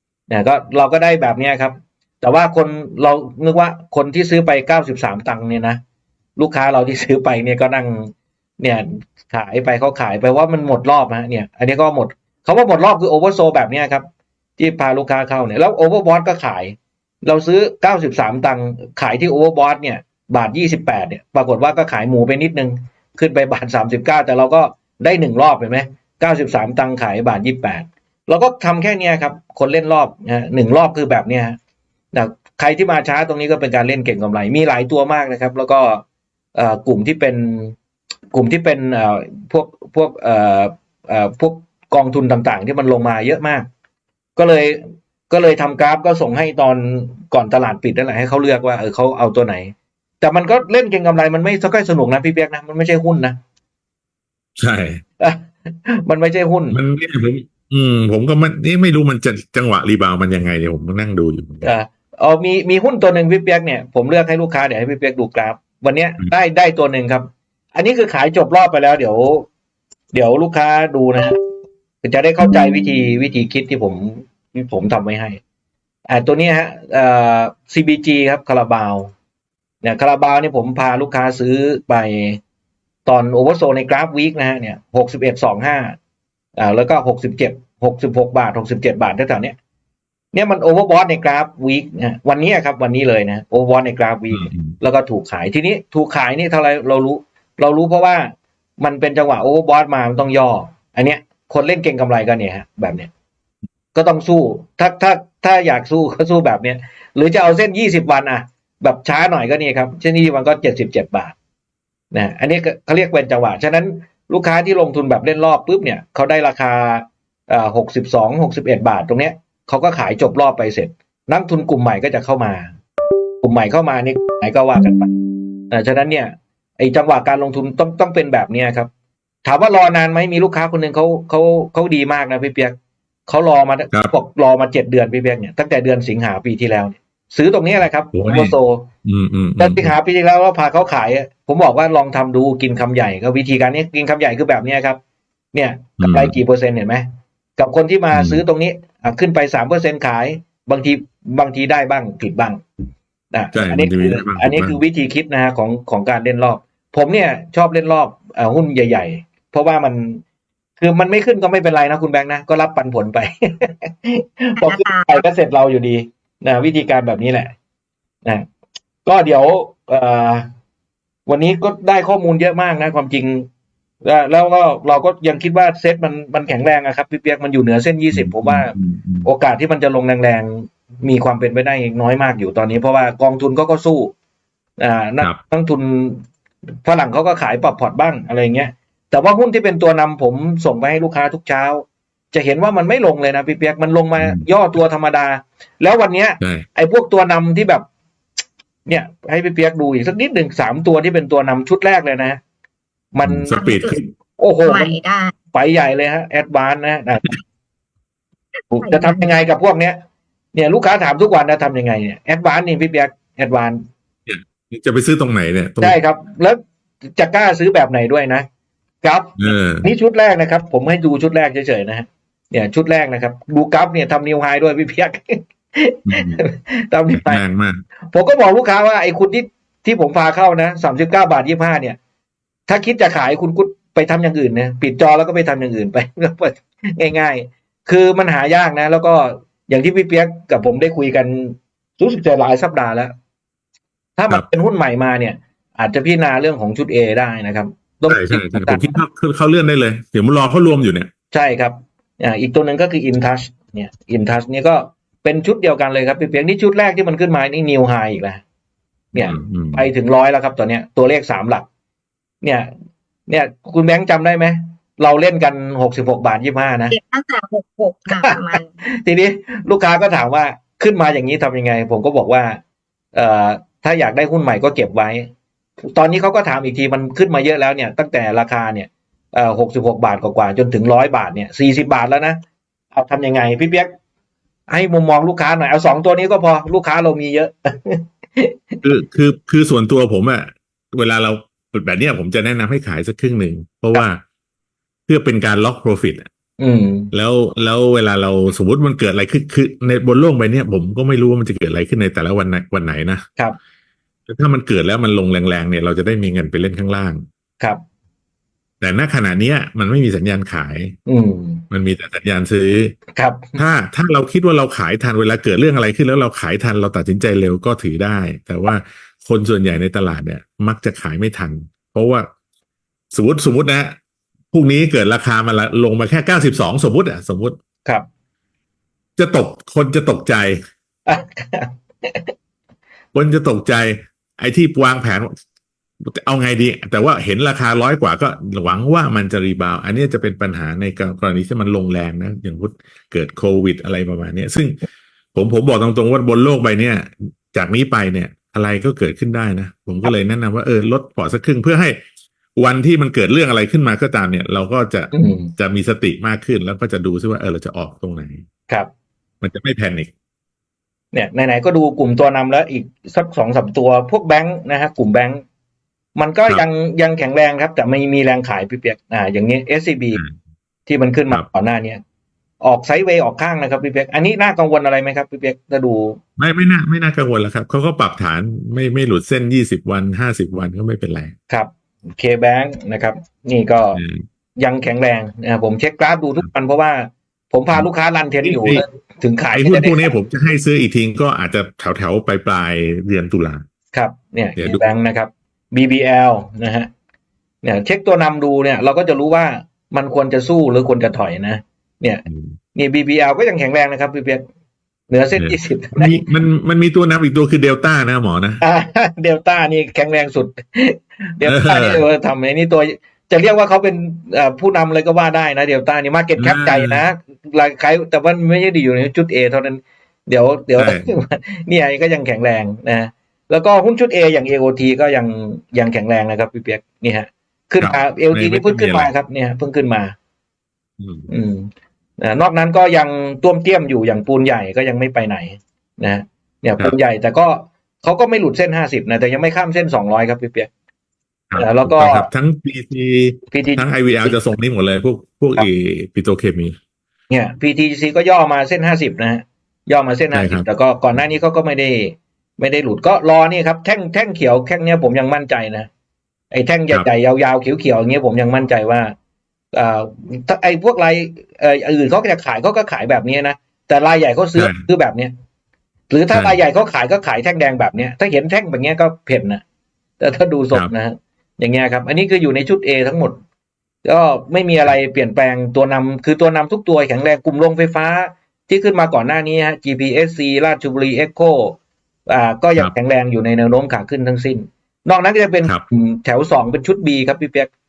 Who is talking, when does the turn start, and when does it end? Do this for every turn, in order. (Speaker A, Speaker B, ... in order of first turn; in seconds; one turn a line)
Speaker A: 0.3-5.8
Speaker A: 6.4-14.1
Speaker A: 14.6-31.6
Speaker A: 32.1-36.0
Speaker A: 36.5-37.8
Speaker A: 38.3-43.7
Speaker A: 44.4-53.4
Speaker B: 54.6-55.0
Speaker A: 55.2-56.8
Speaker B: 56.7-61.7
Speaker A: 61.6-69.5
Speaker A: 70.1-71.4
Speaker A: 72.0-75.4
Speaker A: 76.1-79.1
Speaker A: 79.8-82.4
Speaker A: 83.1-86.0
Speaker A: 86.6-89.6
Speaker A: 90.3-103.1
Speaker B: 94.3-94.7
Speaker A: 103.9-111.3
Speaker A: 112.1-122.7
Speaker A: 123.4-125.1
Speaker A: 125.7-128.9
Speaker A: 129.4-132.8
Speaker A: 133.3-138.9
Speaker B: 138.1-139.9
Speaker A: 139.6-145.0
Speaker A: 145.5-147.1
Speaker B: 146.0-146.3
Speaker A: 147.6-152.6
Speaker B: 148.1-148.4
Speaker A: 153.3-160.2
Speaker B: 153.5-154.8
Speaker A: 160.8-167.5
Speaker C: 164.6-165.2
Speaker A: 169.1-170.5
Speaker A: 171.3-173.5
Speaker A: 174.0-184.1
Speaker B: 178.1-179.3
Speaker A: 184.8-186.3
Speaker A: 186.8-197.9
Speaker B: 194.2-194.4
Speaker B: 196.4-196.7
Speaker A: 198.9-202.4
Speaker A: 203.1-203.7
Speaker B: 203.2-204.1
Speaker C: 203.5-203.9
Speaker A: 204.4-205.0
Speaker C: 204.6-205.3
Speaker A: 205.5-207.4
Speaker A: 208.7-210.0
Speaker C: 208.8-209.3
Speaker A: 210.5-213.8
Speaker B: 214.3-216.0
Speaker A: 215.8-218.5
Speaker A: 219.0-227.4
Speaker B: 219.4-219.9
Speaker B: 226.1-226.4
Speaker B: 227.1-227.8
Speaker A: 228.1-232.0
Speaker A: 232.7-243.1
Speaker A: 244.2-249.0
Speaker B: 248.1-251.1
Speaker A: 251.3-258.4
Speaker A: 259.1-261.7
Speaker B: 259.1-259.9
Speaker A: 262.4-262.7
Speaker A: 263.3-267.0
Speaker C: 266.9-268.7
Speaker A: 268.1-272.6
Speaker A: 273.1-275.3
Speaker A: 275.8-282.4
Speaker A: 282.9-283.9
Speaker A: 284.7-288.8
Speaker B: 288.8-294.2
Speaker B: 295.1-296.3
Speaker A: 296.6-297.1
Speaker B: 297.1-303.3
Speaker B: 304.3-307.2
Speaker B: 308.8-311.0
Speaker A: 311.1-311.6
Speaker B: 311.7-313.0
Speaker A: 313.2-313.6
Speaker B: 313.6-322.3
Speaker B: 323.1-324.0
Speaker B: 324.5-327.6
Speaker B: 329.2-330.6
Speaker A: 331.1-332.3
Speaker B: 333.1-335.4
Speaker B: 336.0-344.8
Speaker B: 345.3-352.0
Speaker B: 352.6-358.4
Speaker A: 355.1-355.5
Speaker B: 359.4-360.1
Speaker A: 361.1-365.4
Speaker A: 366.2-370.2
Speaker A: 370.9-372.0
Speaker A: 372.6-376.2
Speaker B: 376.4-381.4
Speaker A: 381.5-384.0
Speaker B: 383.9-384.2
Speaker A: 384.6-390.2
Speaker B: 388.4-388.8
Speaker B: 389.5-393.6
Speaker A: 393.9-396.9
Speaker B: 394.6-394.8
Speaker A: 397.6-404.4
Speaker B: 402.3-402.6
Speaker A: 405.1-406.2
Speaker B: 405.4-408.6
Speaker A: 408.6-430.1
Speaker B: 411.4-412.0
Speaker B: 416.4-417.0
Speaker B: 420.8-421.2
Speaker B: 427.8-429.1
Speaker B: 431.0-431.3
Speaker A: 431.3-440.7
Speaker B: 441.5-446.8
Speaker A: 441.6-442.3
Speaker A: 443.5-444.4
Speaker A: 447.3-455.9
Speaker B: 450.3-450.7
Speaker A: 456.5-459.1
Speaker A: 459.7-465.3
Speaker B: 464.6-464.8
Speaker A: 466.1-469.6
Speaker B: 466.3-466.6
Speaker A: 470.2-473.4
Speaker A: 474.0-487.7